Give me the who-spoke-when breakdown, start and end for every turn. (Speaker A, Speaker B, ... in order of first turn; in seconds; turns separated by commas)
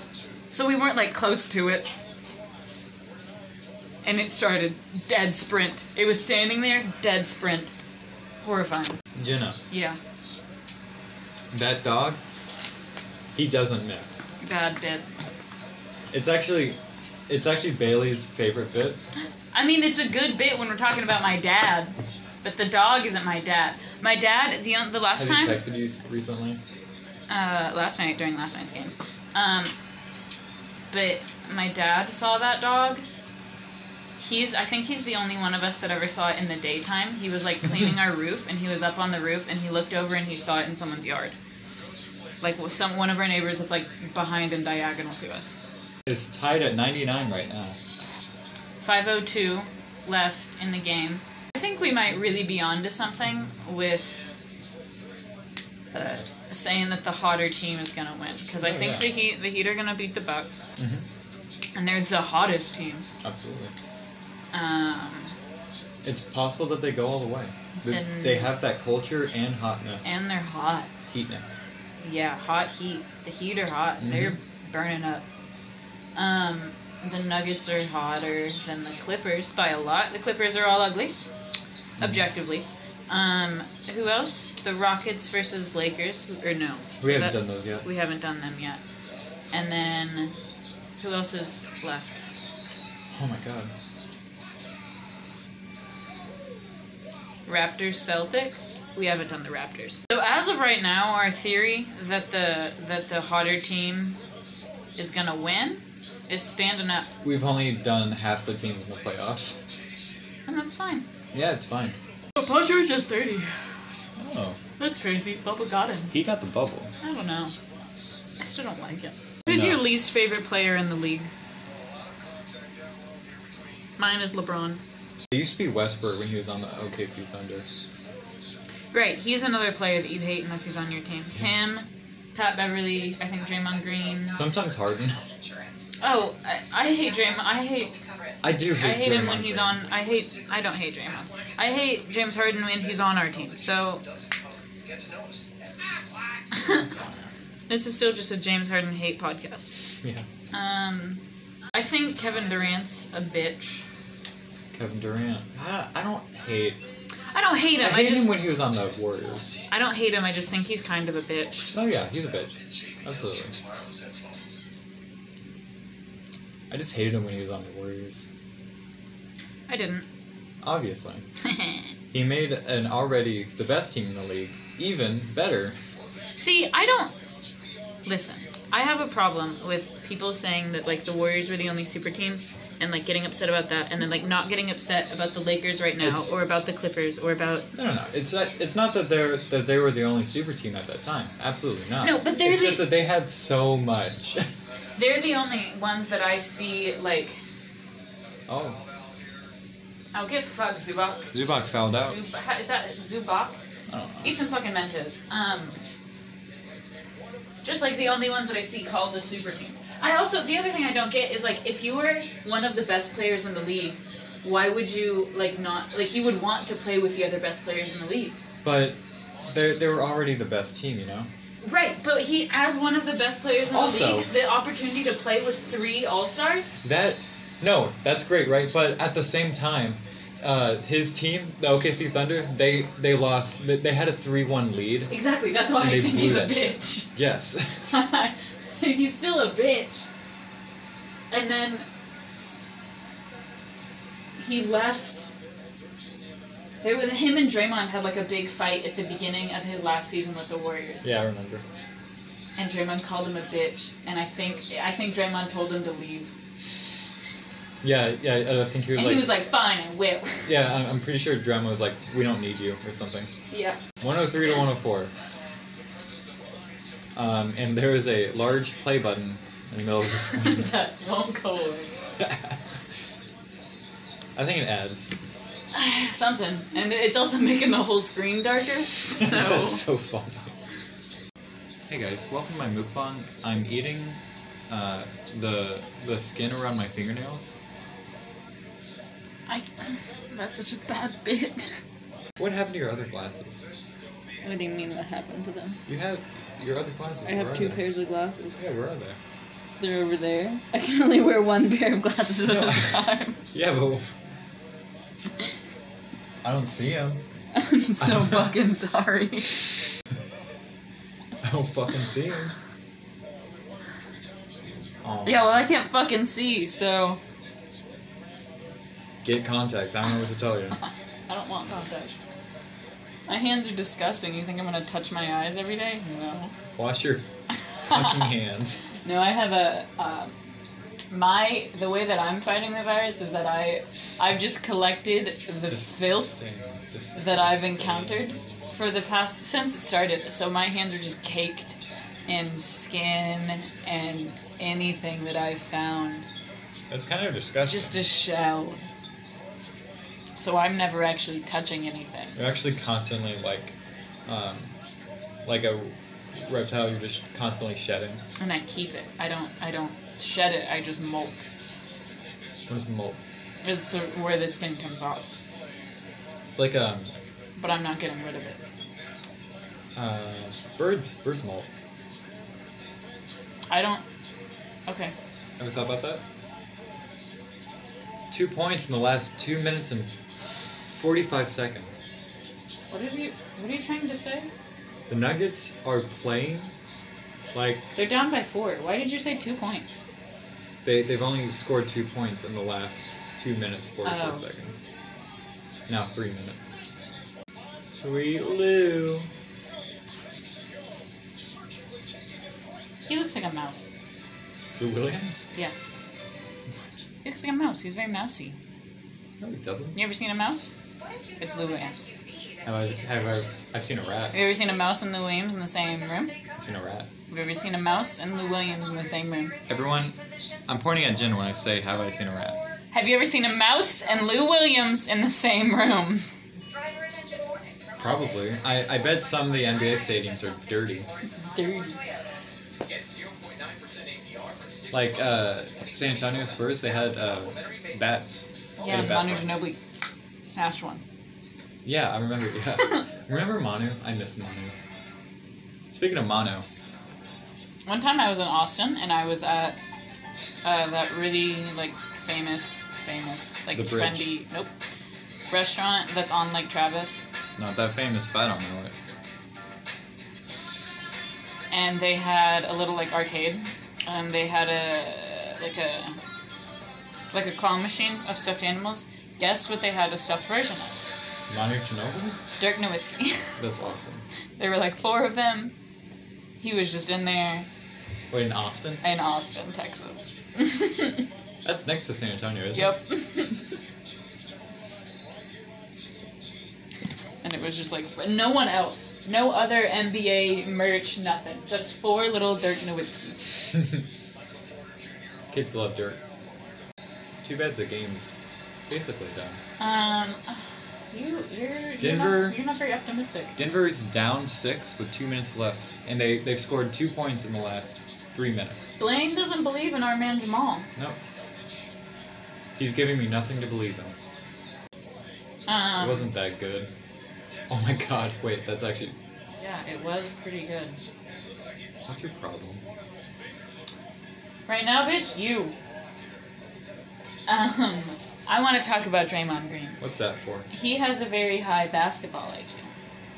Speaker A: 0.5-1.9, Speaker A: 4.0-7.7, Speaker A: 8.4-9.0, Speaker B: 9.2-9.6, Speaker A: 9.7-10.0, Speaker B: 11.5-12.2, Speaker B: 13.3-14.3, Speaker A: 14.4-15.1, Speaker B: 16.1-19.0, Speaker A: 19.5-25.6, Speaker B: 25.1-26.6, Speaker A: 27.3-29.7, Speaker A: 30.9-33.0, Speaker A: 34.2-41.4, Speaker A: 42.4-45.6, Speaker B: 46.1-47.8, Speaker A: 48.8-54.2, Speaker A: 55.9-60.7, Speaker B: 58.6-59.1, Speaker B: 60.8-61.1, Speaker A: 61.8-63.1, Speaker B: 63.2-63.7, Speaker A: 64.5-65.4, Speaker B: 66.0-70.2, Speaker A: 67.8-68.6, Speaker A: 70.0-70.9, Speaker B: 71.1-71.6, Speaker A: 72.0-75.3, Speaker B: 74.0-74.4, Speaker A: 76.2-81.2, Speaker B: 82.0-82.3, Speaker A: 82.0-88.8, Speaker B: 87.0-87.9, Speaker A: 89.5-90.4, Speaker A: 91.0-92.2, Speaker B: 93.1-93.7, Speaker A: 97.5-104.2, Speaker A: 105.0-107.1, Speaker B: 107.2-109.6, Speaker A: 110.5-111.1, Speaker B: 111.3-112.0, Speaker A: 112.4-113.6, Speaker B: 114.2-114.6, Speaker A: 114.8-116.2, Speaker B: 116.1-116.9, Speaker A: 117.0-117.5, Speaker A: 118.4-121.3, Speaker B: 119.5-119.9, Speaker A: 124.0-124.8, Speaker B: 125.3-127.7, Speaker A: 128.9-134.5, Speaker C: 132.8-138.6, Speaker B: 134.3-135.2, Speaker A: 136.0-137.9, Speaker B: 138.4-139.9, Speaker A: 138.6-144.0, Speaker D: 139.8-146.4, Speaker A: 146.5-146.9, Speaker A: 147.7-149.7, Speaker B: 150.0-150.3, Speaker A: 150.5-153.9, Speaker B: 154.7-156.8, Speaker A: 157.3-158.4, Speaker B: 157.8-159.5, Speaker A: 159.7-161.7, Speaker B: 161.7-163.6, Speaker D: 161.8-164.6, Speaker B: 166.7-168.3, Speaker A: 169.7-170.1, Speaker B: 170.6-171.2, Speaker A: 171.4-171.9, Speaker B: 172.1-175.8, Speaker A: 176.4-177.2, Speaker A: 178.1-187.7, Speaker B: 186.0-186.3, Speaker B: 187.7-194.5, Speaker A: 192.0-192.9, Speaker A: 195.0-197.4, Speaker B: 198.5-198.8, Speaker A: 200.1-201.3, Speaker B: 201.3-202.2, Speaker A: 201.9-203.6, Speaker B: 203.9-204.4, Speaker A: 204.2-205.8, Speaker A: 207.6-218.4, Speaker B: 218.6-221.3, Speaker A: 221.6-226.8, Speaker B: 223.7-224.3, Speaker B: 226.8-235.1, Speaker A: 235.1-237.1, Speaker B: 235.8-237.8, Speaker A: 237.9-240.1, Speaker A: 241.3-241.9, Speaker A: 244.4-245.3, Speaker A: 246.8-251.1, Speaker B: 251.0-251.6, Speaker A: 252.6-256.3, Speaker B: 257.8-259.4, Speaker A: 258.9-260.5, Speaker B: 260.4-263.3, Speaker A: 263.5-263.8, Speaker B: 264.0-265.1, Speaker B: 267.1-270.7, Speaker A: 270.3-271.9, Speaker B: 272.2-272.6, Speaker B: 274.4-275.1, Speaker A: 275.7-279.9, Speaker B: 279.2-280.6, Speaker B: 281.9-287.5, Speaker A: 289.5-291.7, Speaker B: 292.4-293.7, Speaker A: 294.4-295.8, Speaker B: 295.9-297.9, Speaker A: 297.2-298.6, Speaker B: 298.6-299.2, Speaker A: 299.8-303.4, Speaker B: 302.4-304.1, Speaker B: 306.4-307.2, Speaker A: 307.5-309.7, Speaker B: 308.0-308.5, Speaker B: 311.4-312.6, Speaker B: 315.0-315.7, Speaker A: 315.2-317.2, Speaker B: 319.2-320.8, Speaker A: 320.8-322.2, Speaker A: 323.3-326.5, Speaker B: 326.8-327.3, Speaker A: 327.8-328.2, Speaker B: 327.8-328.8, Speaker A: 329.0-330.4, Speaker A: 331.1-336.4, Speaker B: 335.7-338.7, Speaker A: 337.1-346.3, Speaker B: 346.9-348.0, Speaker A: 347.6-348.9, Speaker A: 350.4-352.4, Speaker B: 352.4-354.7, Speaker B: 355.4-358.2, Speaker A: 358.4-361.4, Speaker B: 362.7-363.2, Speaker A: 363.6-365.3, Speaker B: 366.5-367.1, Speaker A: 367.6-368.6, Speaker B: 369.9-371.7, Speaker A: 373.7-374.1, Speaker A: 374.9-375.1, Speaker B: 375.6-376.2, Speaker B: 378.3-380.1, Speaker B: 380.9-382.1, Speaker A: 382.9-384.5, Speaker B: 385.1-386.7, Speaker B: 387.5-387.9, Speaker A: 387.9-390.0, Speaker B: 390.8-394.8, Speaker A: 394.0-394.5, Speaker B: 395.9-396.8, Speaker B: 397.8-399.3, Speaker A: 403.1-403.9, Speaker B: 404.8-405.5, Speaker A: 407.2-408.6, Speaker B: 409.4-410.0, Speaker A: 409.9-410.7, Speaker C: 411.0-415.0, Speaker A: 411.4-412.1, Speaker B: 412.6-414.4, Speaker A: 414.3-416.3, Speaker C: 416.1-416.7, Speaker B: 416.6-417.1, Speaker A: 417.3-419.6, Speaker C: 417.4-422.8, Speaker B: 419.7-422.6, Speaker A: 422.9-426.3, Speaker C: 423.9-424.5, Speaker C: 426.7-432.3, Speaker B: 428.0-431.1, Speaker A: 431.4-432.0, Speaker D: 432.9-438.2, Speaker B: 434.9-439.6, Speaker A: 438.8-439.8, Speaker A: 440.4-441.0, Speaker B: 441.8-444.8, Speaker B: 445.9-446.7, Speaker A: 447.9-449.8, Speaker A: 450.6-454.7, Speaker B: 453.7-454.3, Speaker A: 455.5-457.2, Speaker B: 457.6-458.9, Speaker A: 461.7-466.2, Speaker A: 467.3-471.0, Speaker B: 471.5-472.4, Speaker A: 472.6-473.6, Speaker B: 473.6-474.3, Speaker A: 474.6-475.8, Speaker A: 476.6-477.7, Speaker B: 478.3-479.0, Speaker A: 479.0-481.3, Speaker B: 481.6-483.0, Speaker A: 482.7-483.6, Speaker A: 487.4-493.6, Speaker B: 495.5-496.2, Speaker B: 497.4-498.3, Speaker B: 498.9-499.6, Speaker A: 499.8-503.6, Speaker B: 502.0-502.6, Speaker B: 503.6-509.0, Speaker A: 509.0-510.9, Speaker B: 512.8-514.2, Speaker A: 515.7-516.3, Speaker B: 516.0-516.9, Speaker B: 517.7-519.2, Speaker A: 519.6-521.0, Speaker B: 522.1-522.8, Speaker A: 524.7-525.8, Speaker A: 527.5-530.0, Speaker B: 530.0-530.7, Speaker A: 530.7-532.9